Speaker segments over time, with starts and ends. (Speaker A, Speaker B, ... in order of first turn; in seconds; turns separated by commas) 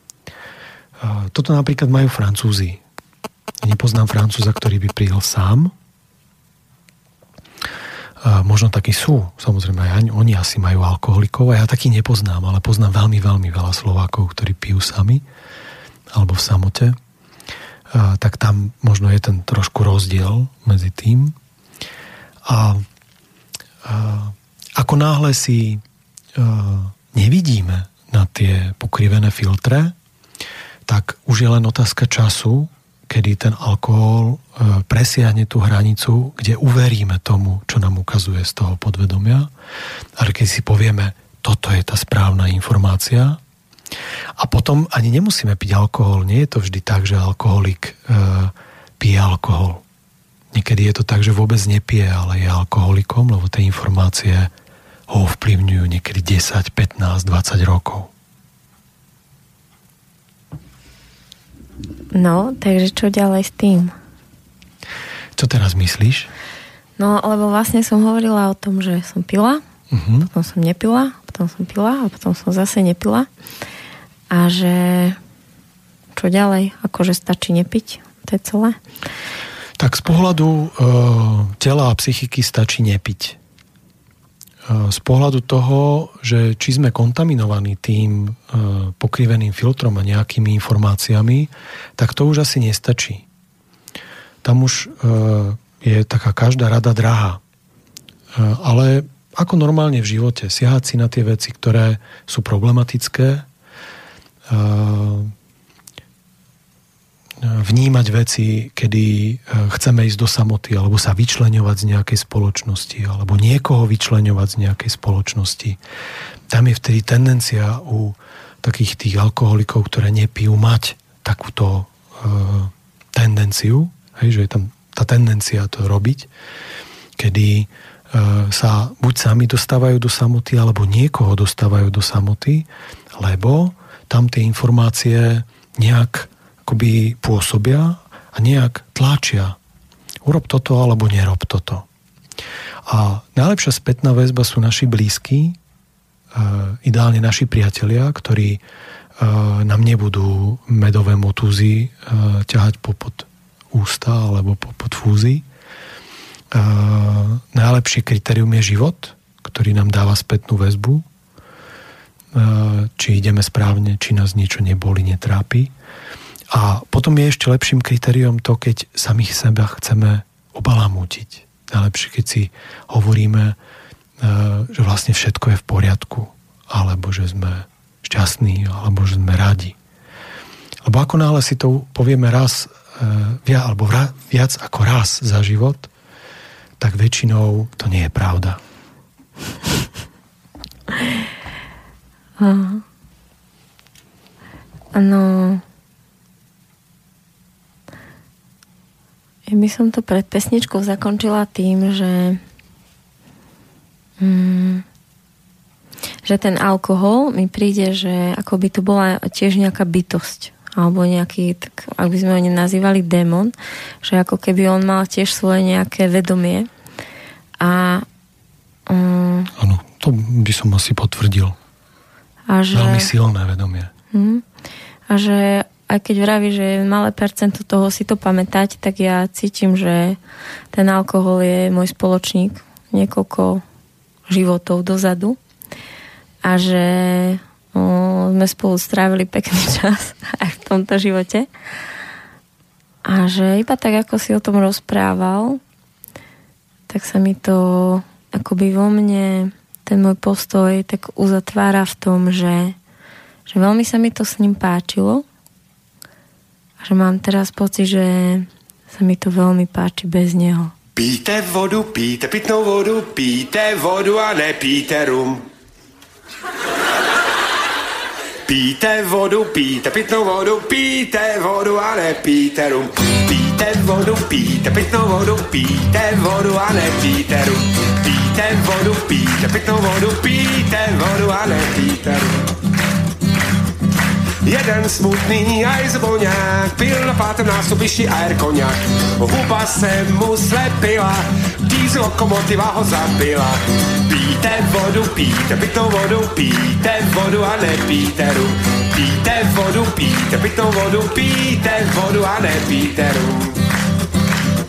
Speaker A: 1.0-2.8, Speaker A: 3.6-5.7, Speaker A: 8.2-15.2, Speaker A: 16.1-17.0, Speaker A: 17.9-21.4, Speaker A: 22.4-22.9, Speaker A: 23.8-25.8, Speaker A: 26.4-29.9, Speaker A: 30.9-39.5, Speaker A: 40.2-43.4, Speaker A: 44.4-49.8, Speaker A: 50.5-54.5, Speaker A: 55.1-58.1, Speaker B: 62.1-63.9, Speaker A: 65.4-66.3, Speaker B: 67.0-69.6, Speaker A: 69.9-70.3, Speaker B: 70.3-73.3, Speaker B: 74.3-75.2, Speaker B: 76.2-78.8, Speaker A: 79.8-83.4, Speaker A: 84.7-93.2, Speaker A: 94.4-97.4, Speaker A: 98.3-103.5, Speaker A: 104.5-105.3, Speaker A: 107.4-115.8, Speaker A: 116.5-126.3, Speaker A: 127.2-139.6, Speaker A: 140.2-141.9, Speaker A: 142.9-145.6, Speaker A: 146.3-148.6, Speaker A: 149.2-155.4, Speaker A: 156.5-161.1, Speaker A: 162.3-165.7, Speaker A: 166.5-173.6, Speaker A: 174.2-179.8, Speaker A: 180.8-185.9, Speaker A: 186.8-188.6, Speaker B: 192.4-192.8, Speaker B: 194.9-195.6, Speaker B: 199.5-202.4, Speaker B: 204.2-204.8, Speaker B: 206.2-216.7, Speaker B: 217.6-218.1, Speaker B: 218.9-219.5, Speaker A: 219.6-221.6, Speaker B: 222.5-223.1, Speaker A: 222.7-223.9, Speaker B: 224.1-224.4, Speaker B: 225.1-230.2, Speaker B: 230.7-233.6, Speaker B: 234.3-235.4, Speaker B: 236.4-241.5, Speaker B: 243.1-245.6, Speaker B: 246.9-252.8, Speaker B: 253.5-255.2, Speaker B: 256.8-260.7, Speaker C: 261.0-265.4, Speaker C: 268.5-282.4, Speaker C: 284.4-303.6